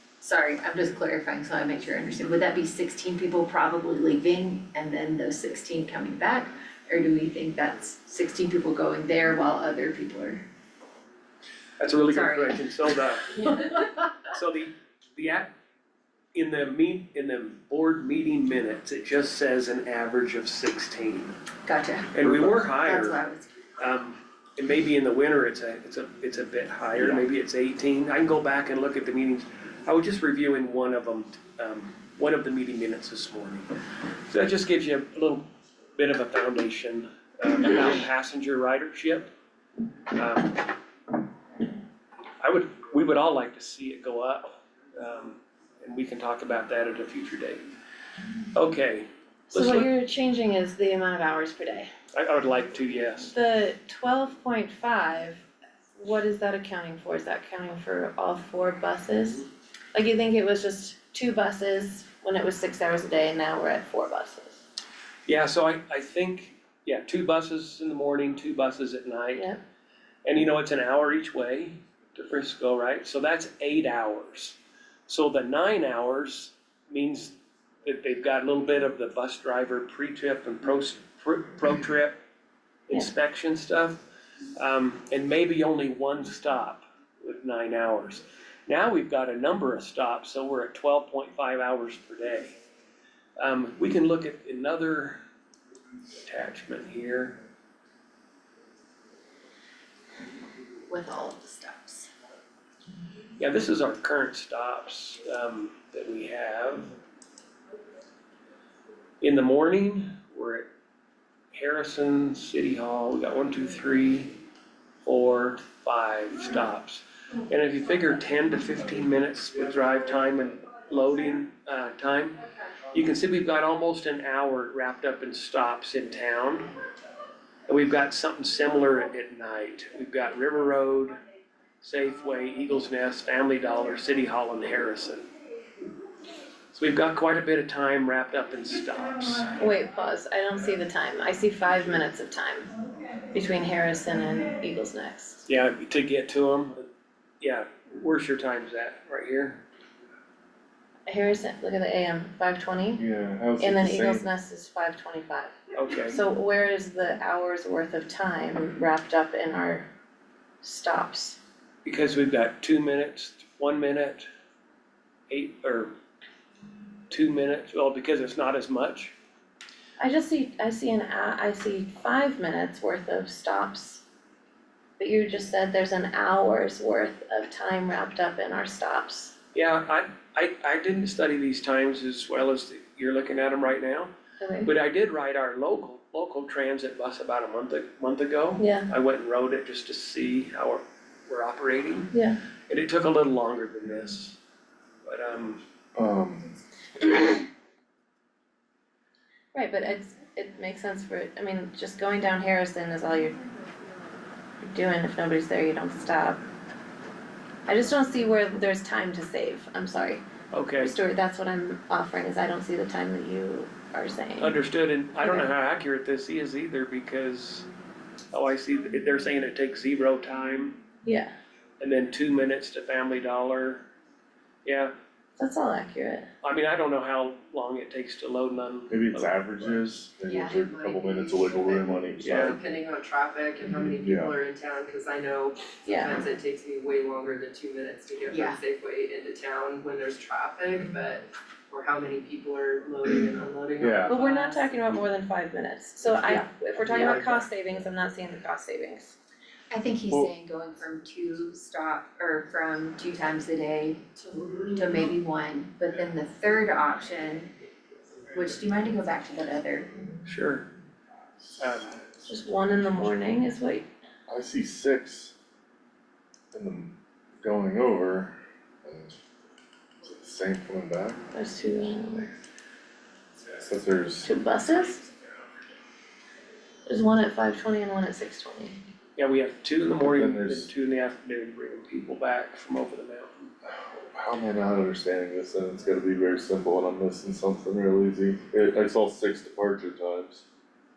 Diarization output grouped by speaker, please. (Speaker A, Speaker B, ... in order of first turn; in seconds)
Speaker A: 0.2-10.4, 12.1-12.6, 21.6-23.6, 100.9-102.1, 230.2-230.6, 238.3-238.6, 249.7-254.0, 254.7-257.5, 258.3-259.9
Speaker B: 11.8-15.5, 16.3-21.3, 22.1-23.2, 23.8-33.7, 34.3-39.3, 40.1-40.7, 42.4-47.6, 48.5-49.9, 52.1-53.3, 65.2-69.5, 70.2-82.2, 82.9-84.0, 84.5-92.6, 93.4-95.2, 96.2-97.4, 103.4-106.9, 109.2-110.7, 111.5-114.4, 115.0-126.7, 127.7-131.2, 131.8-135.3, 136.7-139.5, 145.5-146.9, 147.4-149.6, 155.7-156.2, 161.8-164.3, 165.3-165.9, 167.1-169.1, 179.5-184.1, 184.6-192.1, 192.7-194.4, 195.0-195.6, 210.5-210.9, 214.4-217.7, 218.3-220.8, 221.8-223.9, 224.6-224.9, 226.4-229.8, 232.2-232.6, 260.2-260.7, 261.6-261.9, 279.1-283.5
Speaker C: 49.5-51.9, 53.3-55.4, 56.0-64.6, 139.6-142.7, 143.3-145.4, 151.1-153.0, 153.6-155.5, 156.1-159.9, 160.6-161.4, 170.0-174.0, 175.0-179.3, 184.4-184.7, 188.6-188.9, 192.1-192.4, 199.5-203.5, 204.6-206.4, 207.7-210.2, 210.8-214.6, 215.2-215.4, 221.0-221.3, 225.4-226.3, 235.8-236.1, 244.1-249.2, 262.2-263.9, 271.3-272.3, 274.2-275.0, 276.9-278.9
Speaker D: 153.0-154.2, 195.9-196.6, 228.9-232.6, 234.0-234.3, 243.8-244.2, 264.3-265.3, 266.5-269.2, 270.0-271.3, 273.6-274.3, 280.1-280.7, 283.7-290.4
Speaker E: 230.5-244.7, 246.9-247.4